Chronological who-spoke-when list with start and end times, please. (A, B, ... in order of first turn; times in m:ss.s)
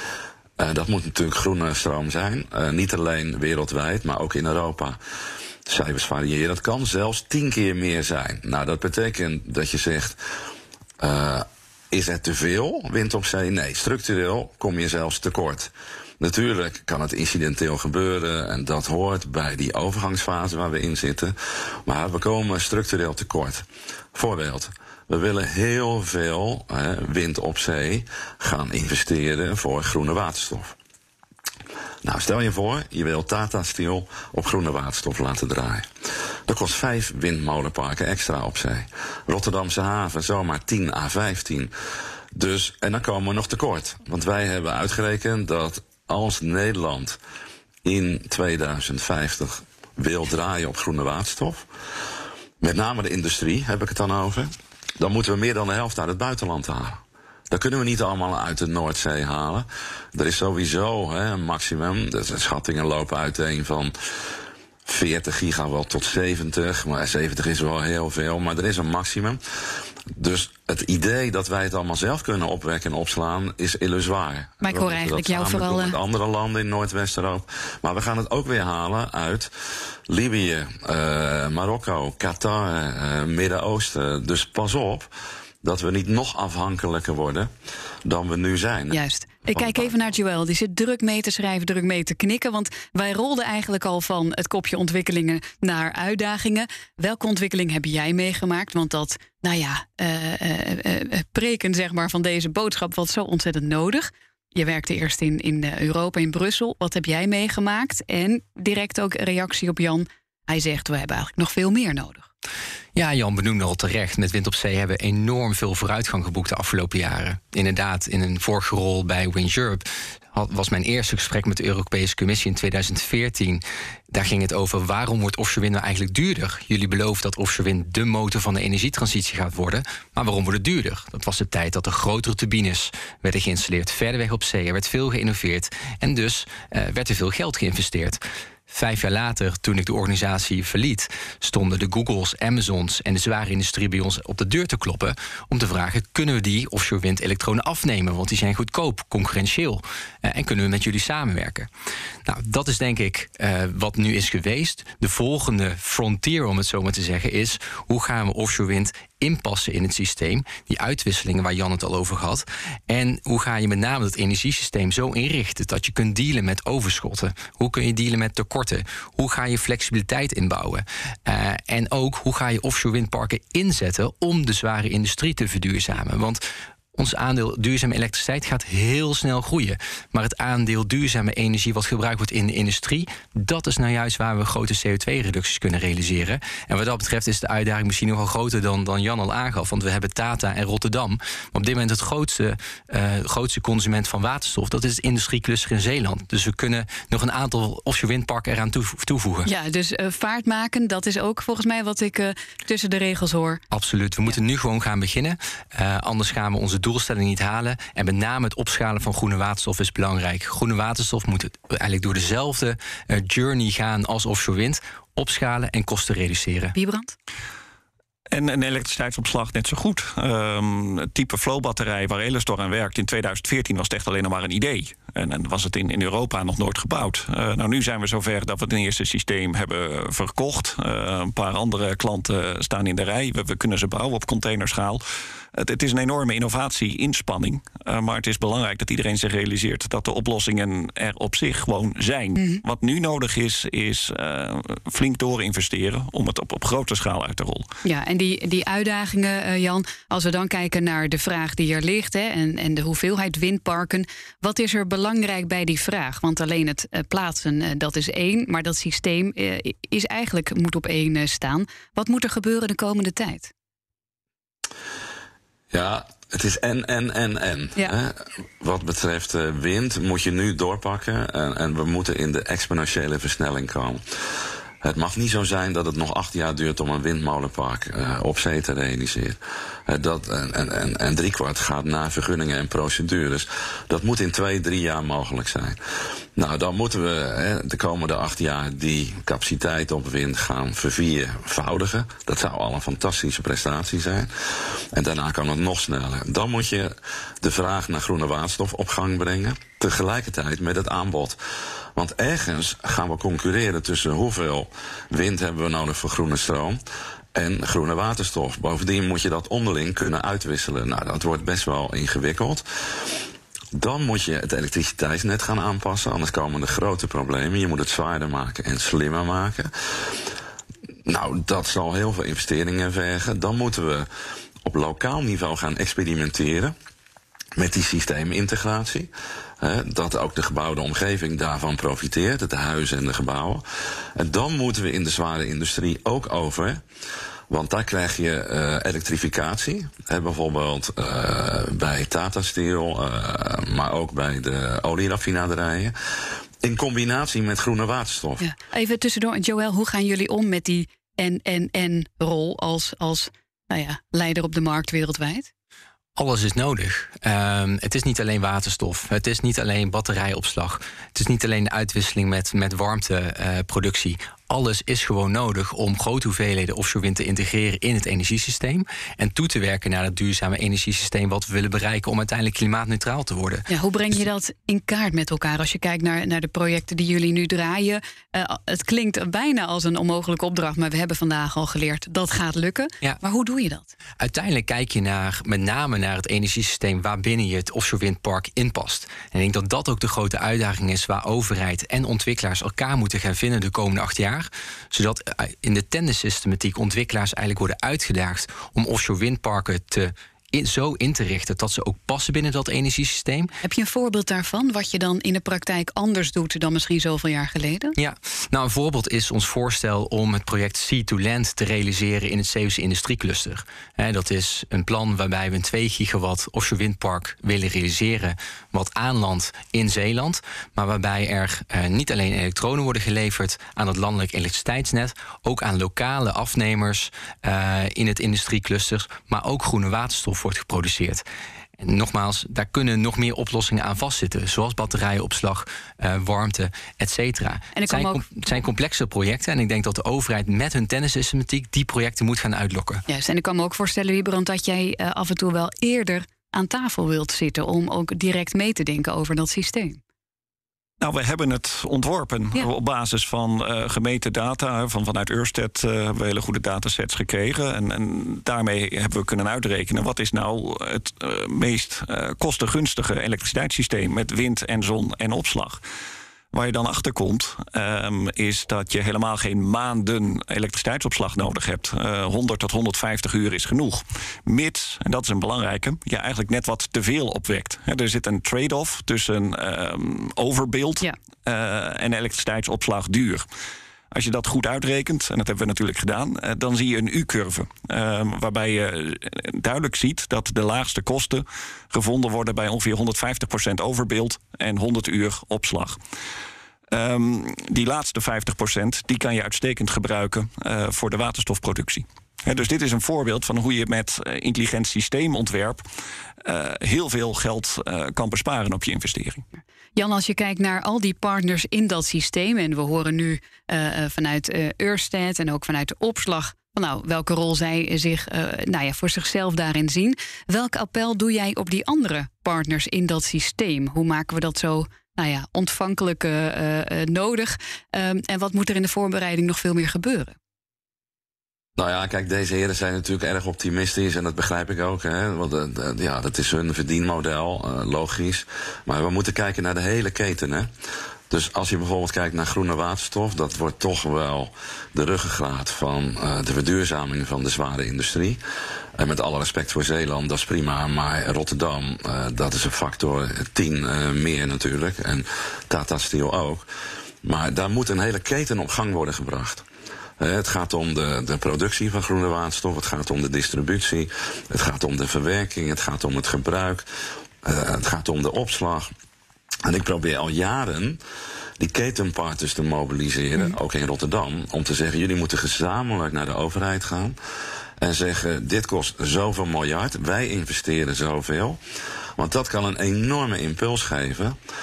0:00.6-0:05.0 A
0:05.7-0:10.2 A
0:11.0-0:30.8 A
0:32.0-0:35.9 A
0:36.5-0:41.7 A
0:42.3-0:47.2 A
0:47.8-0:51.7 A
0:52.6-1:03.9 A
1:04.9-1:09.4 A
1:10.1-1:19.5 A
1:14.6-1:16.0 B
1:20.1-1:25.1 A
1:25.6-1:27.5 A
1:28.0-1:29.0 A
1:28.9-1:52.3 B
1:29.5-1:29.9 A
1:53.0-2:31.7 C
2:32.2-2:56.4 C
2:56.9-3:19.5 C
3:19.4-3:23.6 B
3:23.7-3:36.8 C
3:36.8-3:37.2 B
3:38.3-3:55.0 D
3:55.5-4:07.7 D
4:02.4-4:02.6 B
4:07.8-4:23.5 B
4:25.7-4:34.0 A
4:34.8-4:45.8 A
4:46.4-5:01.4 A
5:02.0-5:06.8 A
5:07.3-5:12.6 A
5:13.7-5:19.7 A
5:21.1-5:24.1 A
5:24.6-5:26.7 A
5:27.6-5:33.6 A
5:34.2-5:36.8 A
5:37.5-5:45.9 A
5:46.6-5:48.5 A
5:48.4-5:55.5 B
5:56.2-6:13.7 C
6:13.7-6:23.9 B
6:24.2-6:43.5 C
6:43.6-6:48.0 B
6:48.0-7:11.2 C
7:11.8-7:23.0 C
7:17.8-7:18.2 B
7:23.1-7:30.0 B
7:31.0-7:45.8 D
7:46.5-8:03.5 D
8:04.1-8:16.0 D
8:16.9-8:25.8 D
8:26.4-8:29.4 D
8:30.0-8:50.4 B
8:51.8-9:00.7 A
9:01.3-9:08.4 A
9:09.0-9:16.7 A
9:17.2-9:19.6 A
9:20.2-9:26.8 A
9:27.4-9:28.9 A
9:29.6-9:31.0 A
9:31.6-9:37.2 A
9:37.8-9:41.6 A
9:42.2-9:44.4 A